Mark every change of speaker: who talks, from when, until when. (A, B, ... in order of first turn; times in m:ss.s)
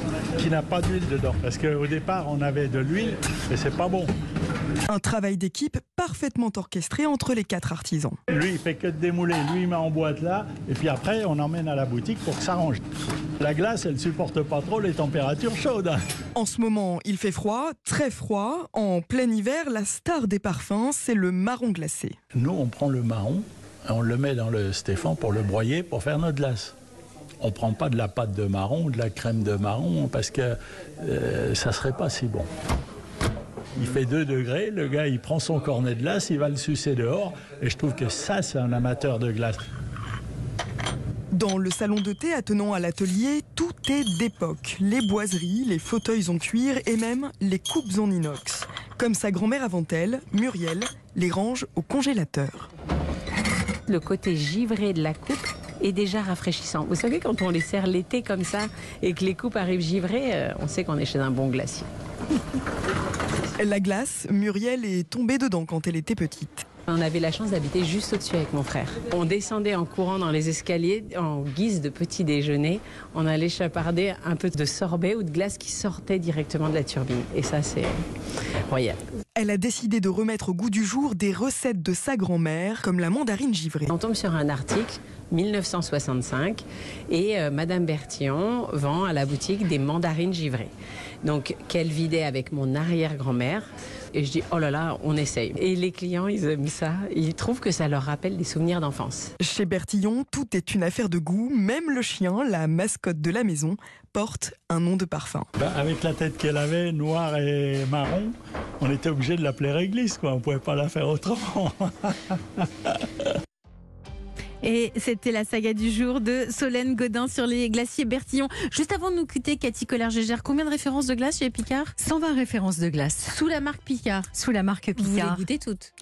0:00.3-0:04.1 A
0:04.9-0:08.2 B
0:08.3-0:12.8 A
0:13.4-0:16.0 A
0:16.3-0:22.2 B
0:22.3-0:26.7 A
0:27.4-0:32.5 A
0:33.8-0:39.6 A
0:41.3-0:52.7 B
0:53.9-1:01.9 C
1:03.6-1:06.6 B
1:06.8-1:18.0 C
1:18.7-1:19.0 C
1:19.4-1:23.9 B
1:23.9-1:30.7 C
1:31.2-1:39.3 C
1:39.4-1:45.5 B
1:45.6-1:53.3 A
1:54.6-2:02.0 D
2:02.0-2:03.4 E
2:03.3-2:04.4 D
2:04.3-2:05.4 E
2:05.0-2:05.9 D